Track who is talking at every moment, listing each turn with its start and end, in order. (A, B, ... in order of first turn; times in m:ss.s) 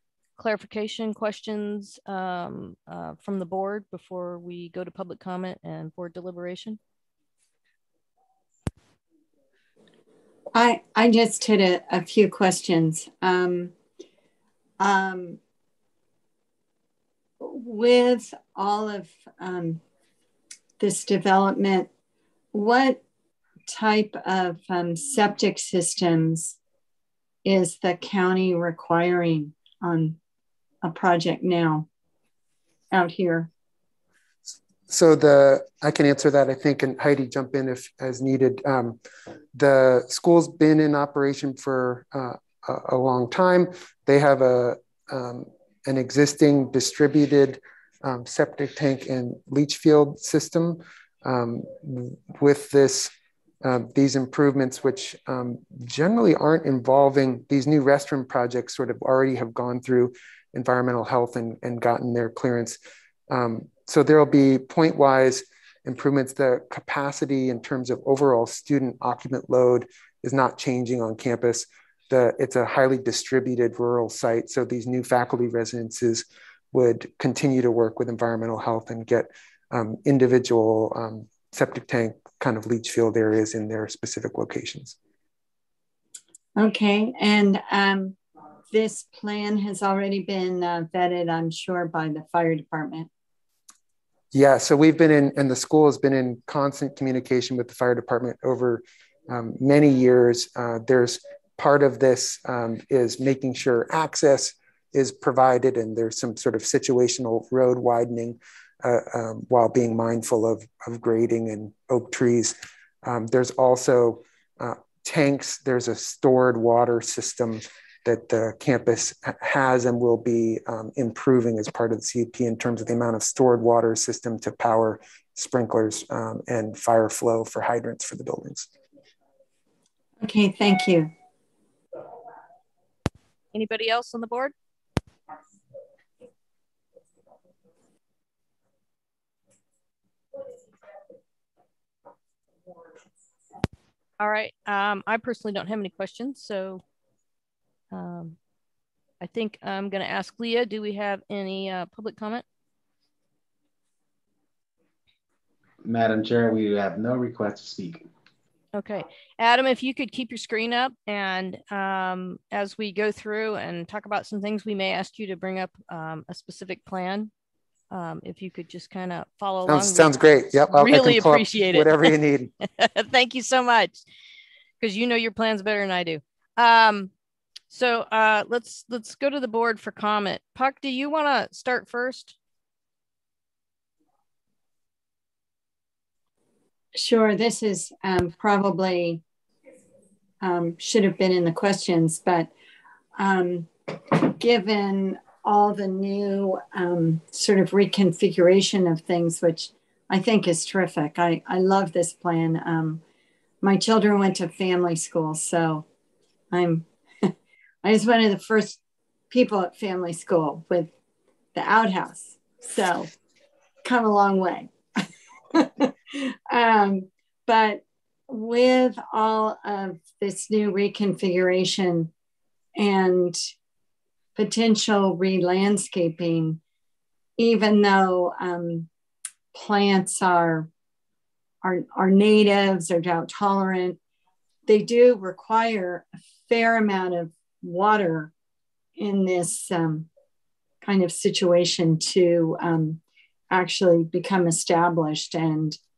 0:00.4-0:06.8 A
0:10.5-0:13.7 B
0:14.8-0:15.4 B
0:17.4-0:19.8 B
0:20.8-0:21.9 B
0:22.5-0:23.0 B
0:23.7-0:26.6 B
0:27.4-0:30.2 B
0:30.8-0:31.8 B
0:32.9-0:33.5 B
0:34.9-0:39.0 C
0:39.5-0:53.1 C
0:53.6-1:02.8 C
1:03.3-1:25.0 C
1:26.6-1:28.2 B
1:28.7-1:33.1 B
1:34.3-2:08.7 C
2:10.2-2:11.1 B
2:13.5-2:14.5 A
2:24.2-2:26.8 A
2:27.9-2:28.4 A
2:29.2-2:32.4 A
2:35.8-2:38.0 D
2:38.7-2:47.3 A
2:47.9-2:50.1 A
2:49.7-2:52.5 C
2:50.7-2:54.0 A
2:54.8-2:57.1 A
2:57.7-3:02.3 A
3:06.9-3:09.2 B
3:10.4-3:12.5 B
3:13.2-3:23.0 B
3:23.6-3:25.8 B
3:26.5-3:27.3 B
3:27.8-3:30.9 B
3:31.5-3:33.1 B
3:33.8-3:42.1 B
3:42.8-3:43.5 B
3:44.4-3:46.6 B
3:47.4-3:48.9 B
3:49.5-3:50.7 B
3:51.6-3:54.0 B
3:54.7-3:58.3 B
3:59.0-4:00.1 B
4:00.8-4:05.8 B